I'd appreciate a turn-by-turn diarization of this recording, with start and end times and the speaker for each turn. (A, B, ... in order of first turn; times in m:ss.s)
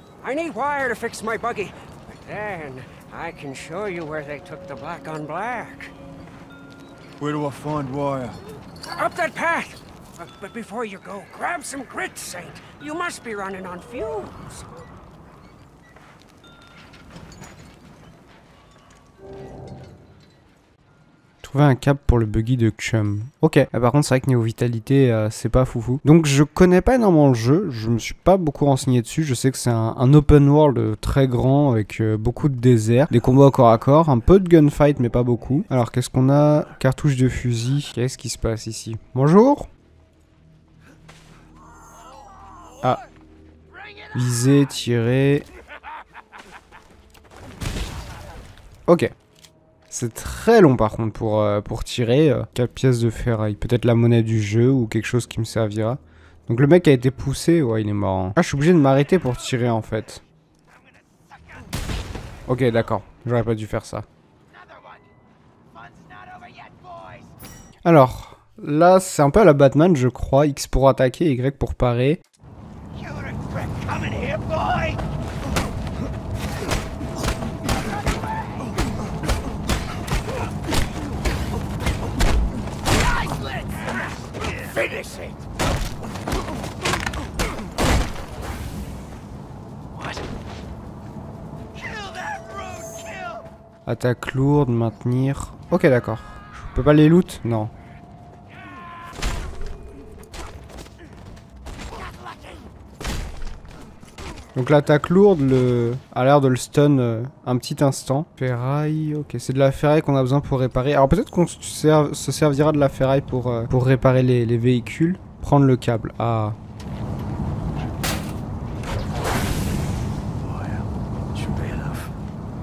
0:00.2-0:05.9 A
0:07.2-0:08.4 B
0:08.9-0:14.6 A
0:21.4-0:39.7 C
0:44.1-0:45.5 C
0:48.9-0:49.1 C
0:49.9-1:00.2 C
1:02.5-1:04.0 C
1:06.3-1:07.0 A
1:07.8-1:12.2 C
1:13.8-1:14.9 A
1:24.8-1:25.3 B
1:33.8-1:37.7 C
1:44.5-1:56.6 C
2:00.4-2:02.1 B